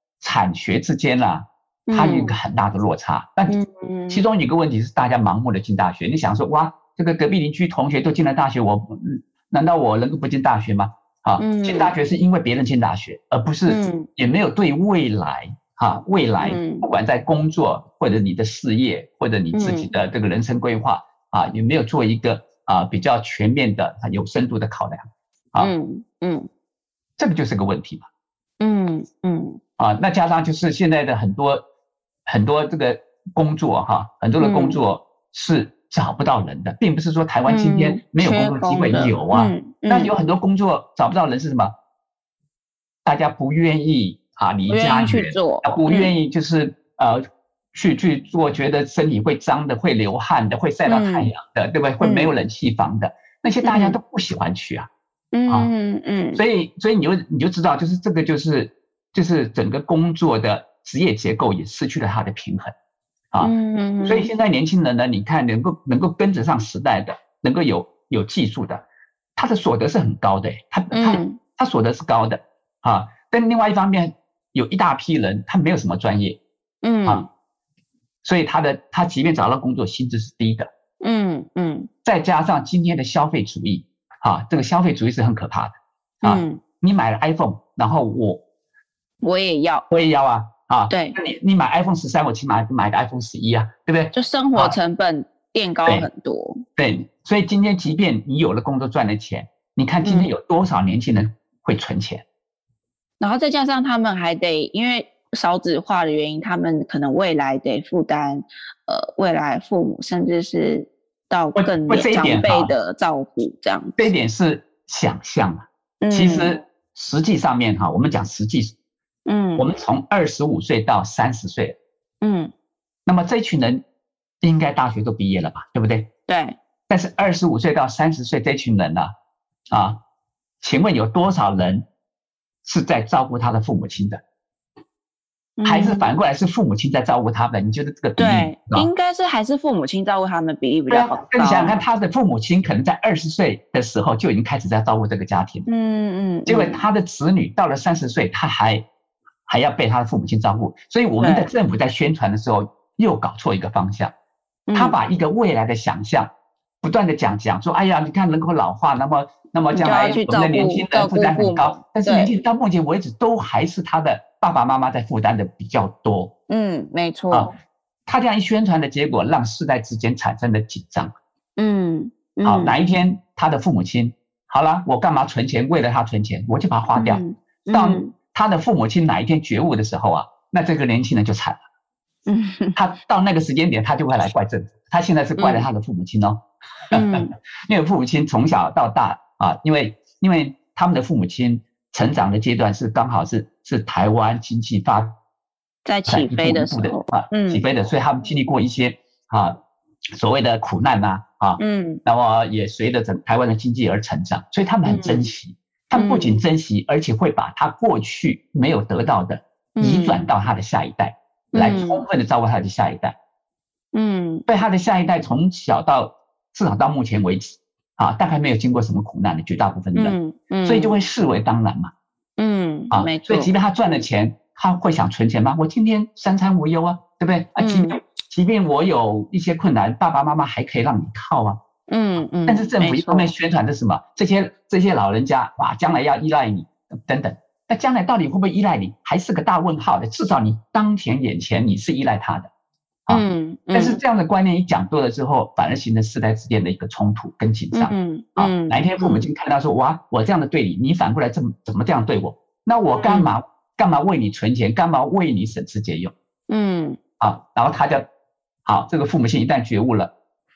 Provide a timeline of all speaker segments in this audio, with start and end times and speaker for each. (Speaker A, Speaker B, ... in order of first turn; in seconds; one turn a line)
Speaker A: 0.2-3.6
Speaker B: 1.9-2.4
Speaker B: 3.5-4.2
Speaker A: 4.1-25.7
Speaker B: 11.4-11.9
Speaker B: 13.7-14.1
Speaker B: 16.4-16.9
Speaker B: 19.5-19.9
Speaker B: 25.6-26.5
Speaker A: 27.2-28.1
Speaker B: 28.6-29.6
Speaker A: 29.8-31.6
Speaker A: 32.3-41.7
Speaker B: 34.4-34.8
Speaker B: 37.5-40.1
Speaker A: 43.0-54.9
Speaker B: 44.7-46.1
Speaker B: 50.9-51.3
Speaker B: 52.0-52.3
Speaker B: 53.6-54.0
Speaker B: 55.3-56.4
Speaker A: 56.3-62.7
Speaker A: 63.3-68.8
Speaker B: 63.4-64.3
Speaker A: 69.3-76.4
Speaker B: 70.9-71.4
Speaker B: 76.8-77.3
Speaker A: 78.2-80.7
Speaker B: 81.0-81.9
Speaker A: 82.0-88.4
Speaker B: 86.2-86.6
Speaker B: 89.2-89.8
Speaker A: 89.9-94.8
Speaker B: 90.9-91.2
Speaker B: 94.1-96.6
Speaker A: 96.8-102.2
Speaker B: 100.0-100.3
Speaker B: 103.2-114.0
Speaker A: 111.5-112.7
Speaker A: 114.0-118.7
Speaker B: 116.0-116.6
Speaker B: 119.2-119.7
Speaker A: 119.6-121.8
Speaker B: 122.2-122.5
Speaker A: 123.0-123.8
Speaker A: 124.4-126.1
Speaker B: 126.3-126.6
Speaker A: 126.9-129.1
Speaker A: 129.7-130.0
Speaker A: 130.6-131.8
Speaker A: 132.6-134.2
Speaker B: 135.6-136.1
Speaker A: 135.6-138.9
Speaker B: 138.2-141.8
Speaker A: 140.9-145.7
Speaker B: 145.7-146.8
Speaker A: 146.5-148.8
Speaker A: 149.5-154.1
Speaker B: 151.2-151.5
Speaker B: 154.7-155.0
Speaker A: 154.7-156.3
Speaker A: 156.8-166.3
Speaker B: 159.7-162.3
Speaker B: 166.5-167.5
Speaker A: 168.1-171.1
Speaker B: 171.6-172.8
Speaker A: 172.4-181.6
Speaker B: 176.9-178.1
Speaker B: 182.3-182.8
Speaker A: 182.8-195.2
Speaker B: 185.4-185.7
Speaker B: 186.9-187.3
Speaker B: 195.8-197.6
Speaker A: 196.1-199.6
Speaker A: 200.1-213.2
Speaker B: 201.6-202.0
Speaker B: 204.8-205.3
Speaker B: 205.9-206.4
Speaker B: 209.8-210.3
Speaker B: 211.5-212.0
Speaker B: 213.9-214.4
Speaker A: 214.5-221.9
Speaker B: 219.9-221.0
Speaker B: 222.4-223.5
Speaker A: 222.9-231.6
Speaker B: 227.6-228.0
Speaker B: 231.9-233.3
Speaker A: 232.4-242.5
Speaker A: 243.1-256.1
Speaker B: 243.1-244.0
Speaker B: 247.7-249.3
Speaker B: 253.0-253.3
Speaker B: 256.5-257.0
Speaker A: 257.2-258.1
Speaker A: 258.6-260.1